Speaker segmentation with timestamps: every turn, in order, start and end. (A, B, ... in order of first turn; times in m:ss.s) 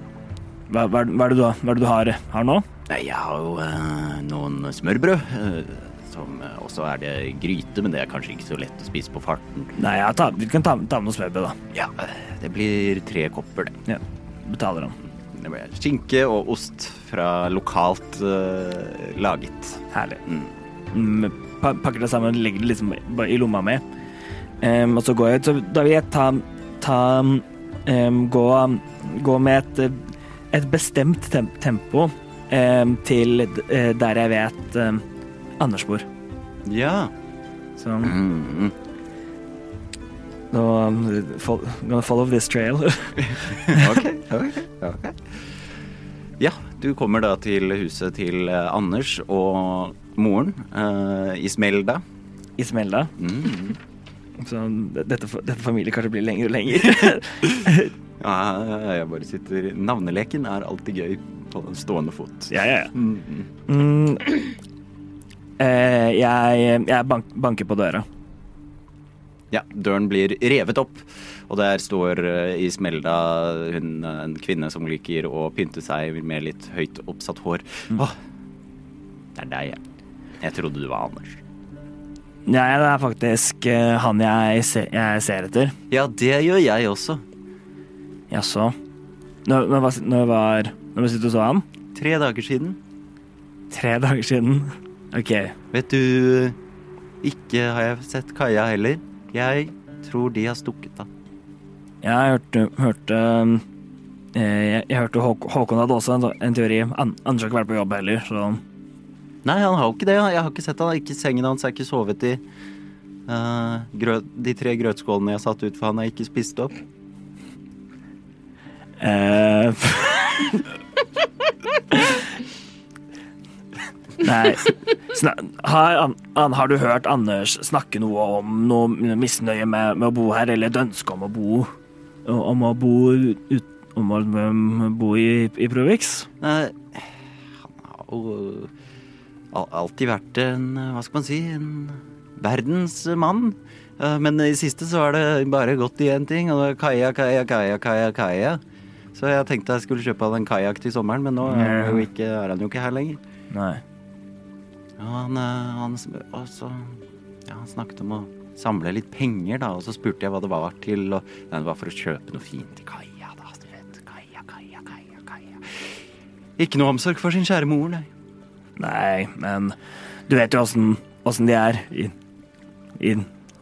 0:00.7-0:02.6 A
0:02.9-0:09.8 B
0:09.8-0:11.6 A
0:11.7-0:13.8 B
0:13.9-0:15.0 A
0:15.3-0:20.5 B
0:19.9-0:20.2 A
0:20.9-0:23.8 A
0:24.6-0:35.0 A
0:35.6-0:36.1 A
0:36.7-0:37.1 B
0:37.8-0:38.2 A
0:38.0-0:38.8 B
0:40.5-0:44.0 A
0:43.3-0:45.6 B
0:46.4-0:52.0 B
0:52.6-0:53.1 A
0:53.2-0:53.8 B
0:54.4-0:57.9 A
0:58.2-1:03.5 B
1:02.5-1:02.9 A
1:03.7-1:04.5 A
1:05.6-1:08.1 A
1:09.5-1:18.2 B
1:19.4-1:19.8 B
1:20.4-1:21.4 B
1:22.5-1:25.8 A
1:25.9-1:27.2 B
1:28.3-1:28.8 A
1:29.5-1:31.6 A
1:31.9-1:32.8 B
1:33.7-1:35.6 A
1:35.7-1:36.6 B
1:37.2-1:41.1 B
1:42.0-1:43.6 A
1:44.3-1:48.6 A
1:49.4-1:52.4 B
1:53.3-1:56.8 B
1:59.0-2:00.6 A
2:01.9-2:02.2 A
2:04.2-2:11.7 A
2:12.2-2:16.3 A
2:16.4-2:18.7 B
2:19.5-2:28.6 B
2:29.1-2:33.2 B
2:31.4-2:32.0 A
2:33.5-2:33.8 A
2:35.0-2:46.0 B
2:46.6-2:48.1 B
2:48.8-2:49.8 A
2:50.3-2:52.1 A
2:53.0-2:53.3 A